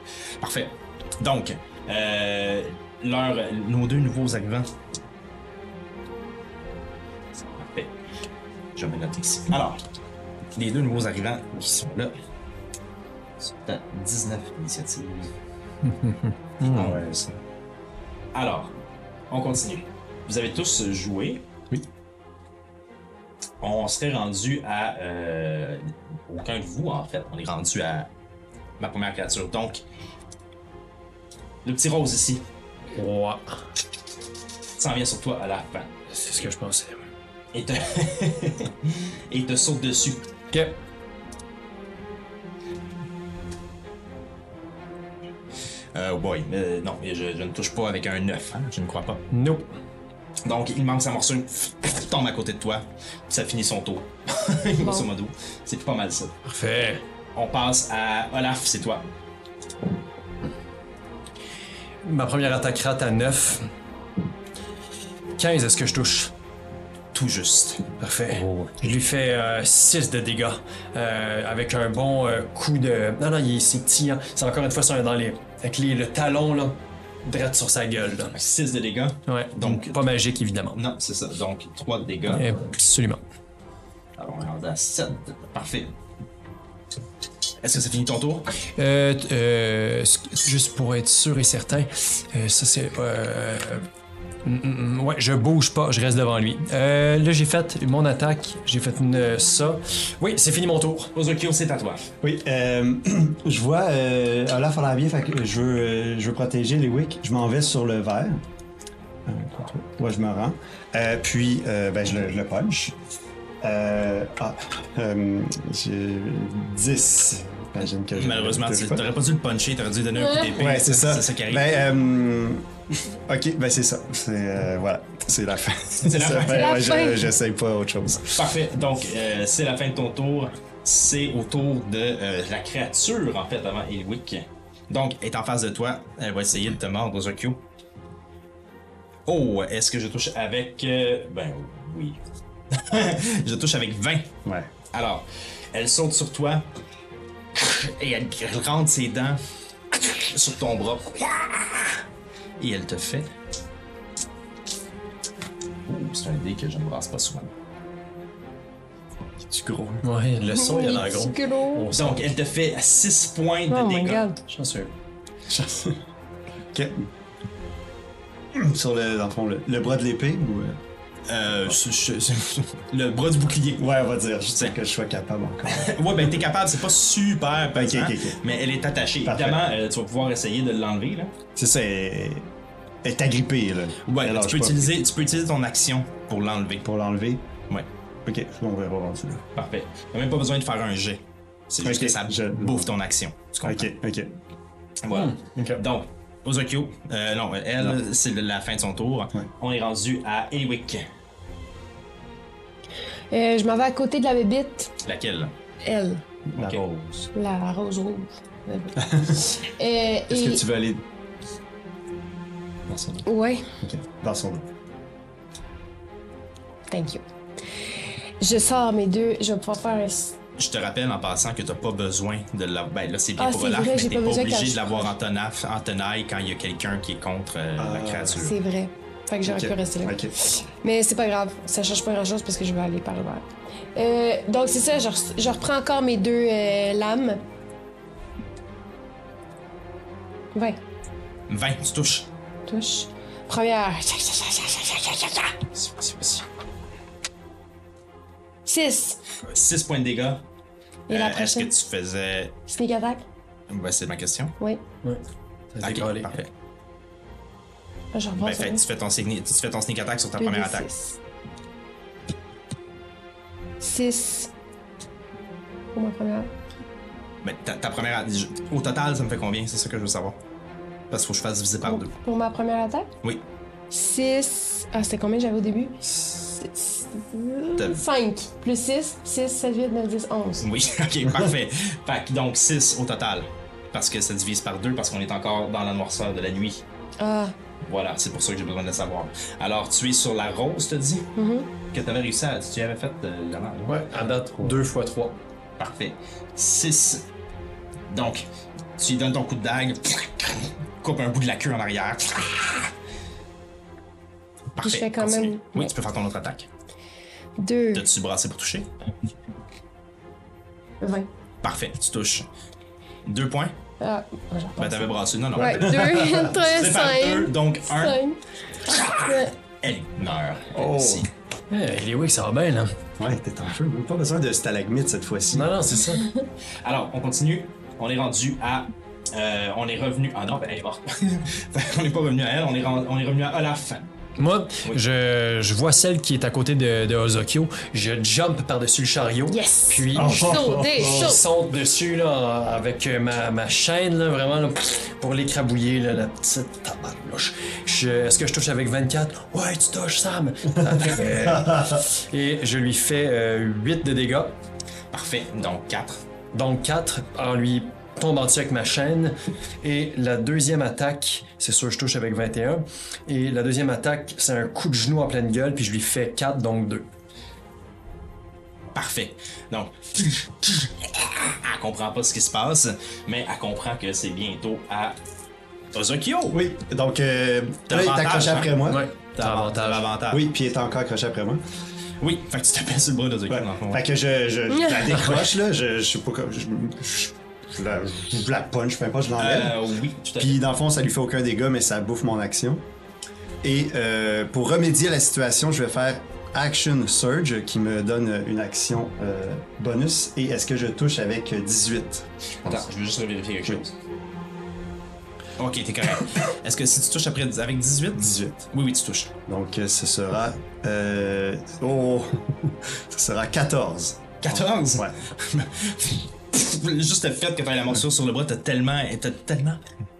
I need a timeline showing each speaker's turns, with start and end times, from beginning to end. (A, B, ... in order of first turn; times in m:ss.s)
0:00.4-0:04.7 A
0:07.6-0:07.9 A
0:08.8-0:09.8 A
0:10.6-0:12.1 A
0:13.4-0:15.3 A
0:15.8-0:17.0 B
0:16.7-0:17.4 A
0:16.8-0:17.1 C
0:18.3-0:18.7 A
0:19.3-0:21.4 A
0:23.6-0:28.1 A
0:28.8-0:29.8 A
0:31.6-0:32.4 A
0:32.9-0:33.7 B
0:34.8-0:35.9 A
0:36.1-0:37.1 B
0:37.5-0:40.3 A
0:40.5-0:40.8 B
0:45.9-0:49.2 A
0:49.3-0:49.7 B
0:50.4-0:56.3 A
0:54.8-0:55.1 D
0:56.4-0:57.0 B
0:57.3-0:59.1 A
1:02.0-1:03.7 B
1:05.4-1:06.3 B
1:07.1-1:07.9 A
1:08.0-1:18.3 B
1:18.3-1:20.0 A
1:19.3-1:20.8 B
1:20.7-1:22.5 A
1:22.3-1:23.2 B
1:24.2-1:25.9 A
1:27.6-1:28.5 A
1:28.8-1:33.9 B
1:34.4-1:41.1 B
1:41.1-1:42.1 A
1:42.2-1:48.4 C
1:49.2-1:52.9 C
1:53.6-1:59.0 C
1:58.1-2:01.7 A
2:00.1-2:00.6 D
2:00.6-2:08.5 C
2:06.0-2:07.1 A
2:06.4-2:07.3 D
2:08.2-2:17.6 A
2:19.2-2:24.3 A
2:24.4-2:24.7 C
2:24.9-2:26.7 A
2:27.5-2:29.4 A
2:29.9-2:32.0 A
2:32.6-2:33.3 A
2:35.8-2:37.5 A
2:39.5-2:40.0 C
2:40.0-2:42.2 B
2:40.5-2:41.9 D
2:41.9-2:44.2 A
2:43.7-2:44.4 D
2:44.5-2:44.9 B
2:45.5-2:46.0 C
2:46.7-2:47.1 C
2:48.5-2:50.8 C
2:51.3-2:53.8 A
2:53.8-2:56.3 C
2:55.7-3:01.3 A
2:57.7-2:58.4 C
2:59.2-2:59.6 C
3:01.6-3:02.5 C
3:03.0-3:04.9 C
3:04.1-3:06.8 A
3:06.8-3:07.4 C
3:08.2-3:09.4 C
3:09.6-3:13.9 A
3:11.8-3:12.9 C
3:13.6-3:14.3 C
3:15.0-3:21.0 A
3:15.1-3:15.8 B
3:23.3-3:24.9 D
3:25.0-3:25.5 A
3:25.8-3:26.2 D
3:26.5-3:27.3 C
3:26.6-3:26.8 A
3:27.3-3:30.6 D
3:29.0-3:29.4 C
3:30.3-3:31.0 C
3:32.9-3:33.2 A
3:33.2-3:33.7 D
3:33.8-3:34.7 C
3:36.9-3:37.2 D
3:38.4-3:40.4 D
3:40.6-3:48.6 A
3:43.4-3:45.1 D
3:47.8-3:48.4 C
3:48.4-3:57.4 D
3:49.4-3:50.4 C
4:00.5-4:00.8 D
4:01.5-4:02.3 A
4:02.7-4:05.6 D
4:05.8-4:06.4 A
4:08.6-4:09.2 D
4:09.4-4:10.4 A
4:11.1-4:11.7 D
4:11.1-4:12.6 A
4:12.7-4:13.2 D
4:13.7-4:14.5 A
4:15.7-4:16.4 B
4:15.8-4:16.5 A
4:18.1-4:18.8 D
4:18.4-4:20.9 A
4:20.4-4:21.2 D
4:23.8-4:24.5 D
4:25.9-4:26.5 D
4:27.4-4:30.4 A
4:31.1-4:32.1 A
4:31.8-4:33.1 D
4:33.9-4:40.6 D
4:40.6-4:46.8 A
4:47.2-4:47.6 D
4:47.8-4:51.3 A
4:51.4-4:51.7 D
4:51.9-4:54.1 A
4:53.8-4:55.4 B
4:55.8-4:57.2 A
4:58.1-5:02.9 A
5:04.7-5:06.7 A
5:04.8-5:05.9 D
5:07.6-5:08.0 D
5:07.9-5:08.9 A
5:11.0-5:11.3 D
5:11.6-5:12.5 A
5:13.2-5:13.7 A
5:14.0-5:19.5 D
5:14.8-5:18.2 A
5:15.6-5:16.1 C
5:18.9-5:21.3 A
5:20.7-5:21.3 C
5:21.7-5:23.0 B
5:23.2-5:25.7 C
5:25.5-5:26.2 B
5:26.2-5:26.5 D
5:26.8-5:34.0 A
5:34.4-5:54.6 B
5:39.5-5:41.4 D
5:40.1-5:41.4 C
5:50.8-5:52.0 C
5:55.1-5:56.2 A
5:56.5-6:07.1 B
6:08.9-6:15.2 A
6:15.9-6:16.6 A
6:16.5-6:19.0 C
6:17.9-6:18.8 A
6:18.8-6:20.0 B
6:19.3-6:20.4 A
6:20.3-6:21.6 C
6:22.2-6:24.0 A
6:23.5-6:32.8 C
6:24.7-6:25.1 D
6:29.3-6:30.6 A
6:33.6-6:42.9 C
6:42.6-6:43.9 A
6:45.6-6:49.3 A
6:48.1-6:48.6 C
6:49.5-6:55.1 C
6:54.4-6:59.8 A